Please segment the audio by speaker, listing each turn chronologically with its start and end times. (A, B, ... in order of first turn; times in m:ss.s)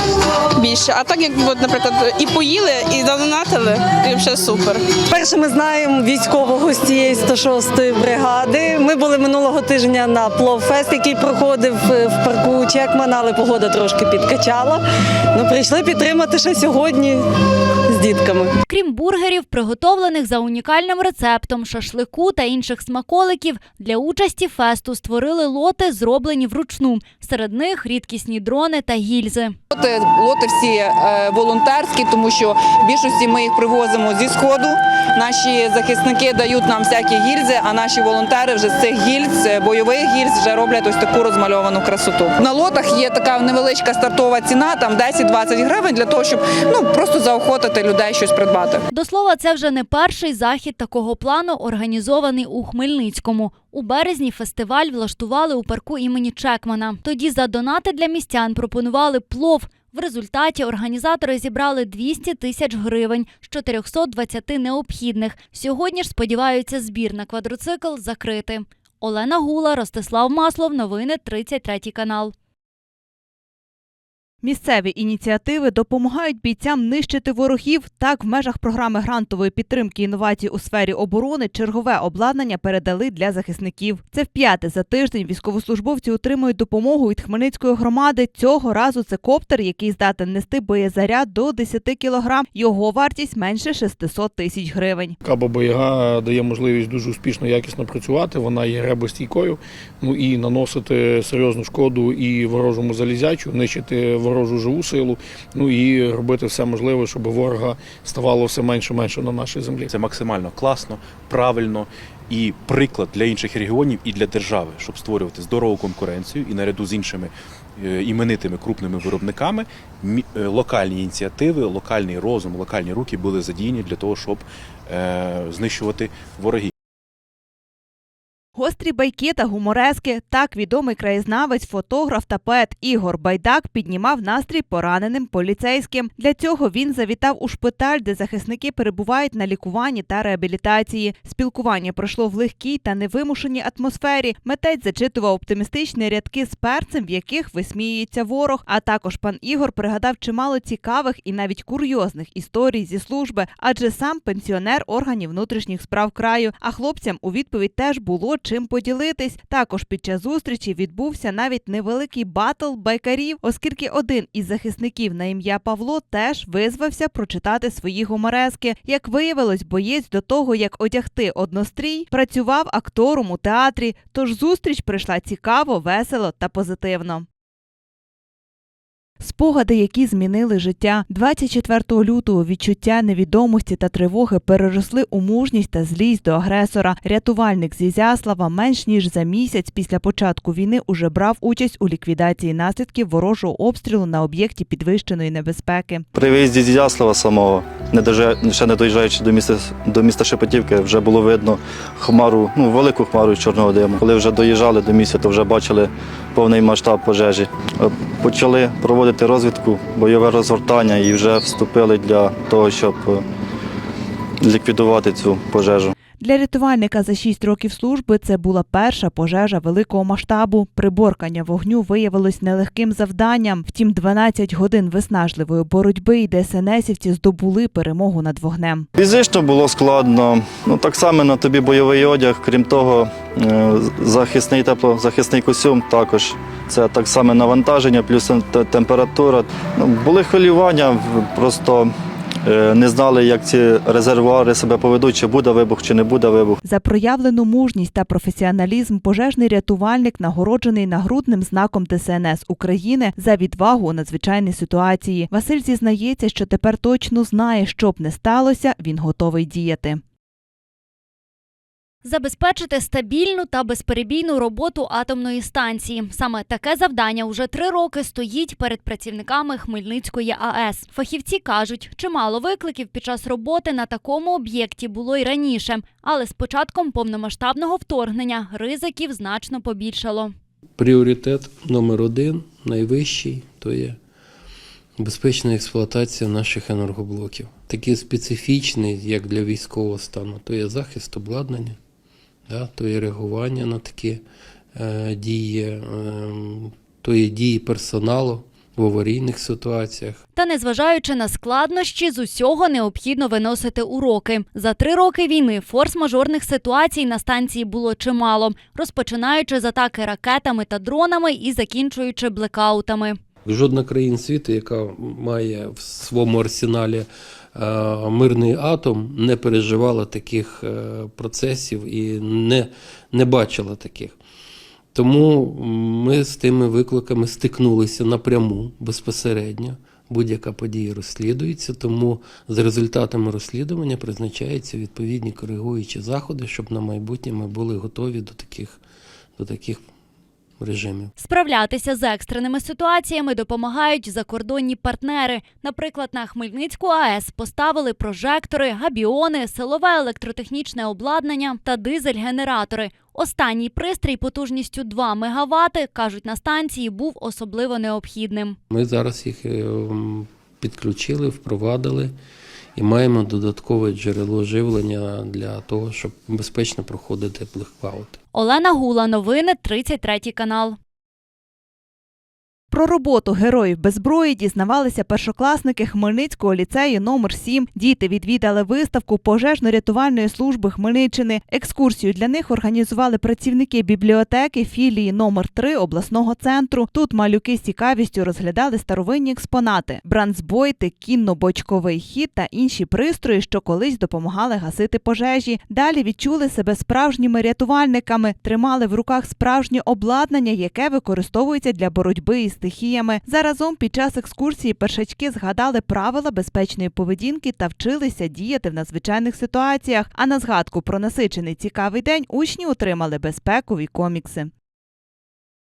0:00.6-0:04.8 A
0:05.0-0:17.2 B
0:17.9-0:18.5 B
0:18.7-0:29.6 C
0:29.7-0:48.8 D
0:48.9-1:12.3 C
1:14.4-1:35.2 E
1:35.2-1:49.9 F
1:49.9-2:06.7 G
2:08.6-2:57.3 E
2:59.2-3:16.0 E
3:16.1-3:33.2 H
3:34.4-3:36.0 H
3:36.2-3:48.9 E
3:49.0-4:01.9 H
4:02.4-4:06.6 H
4:06.6-4:20.0 E
4:22.0-4:40.3 C
4:40.8-4:44.0 I
4:45.0-4:51.8 I
4:52.5-4:54.2 I
4:54.8-5:00.2 I
5:00.3-5:13.2 C
5:13.4-5:24.2 I
5:24.9-5:38.8 I
5:39.4-5:39.8 I
5:40.6-5:41.1 I
5:41.2-5:58.6 C
5:58.7-6:02.2 I
6:02.8-6:08.2 I
6:08.3-6:10.8 C
6:12.7-6:54.5 E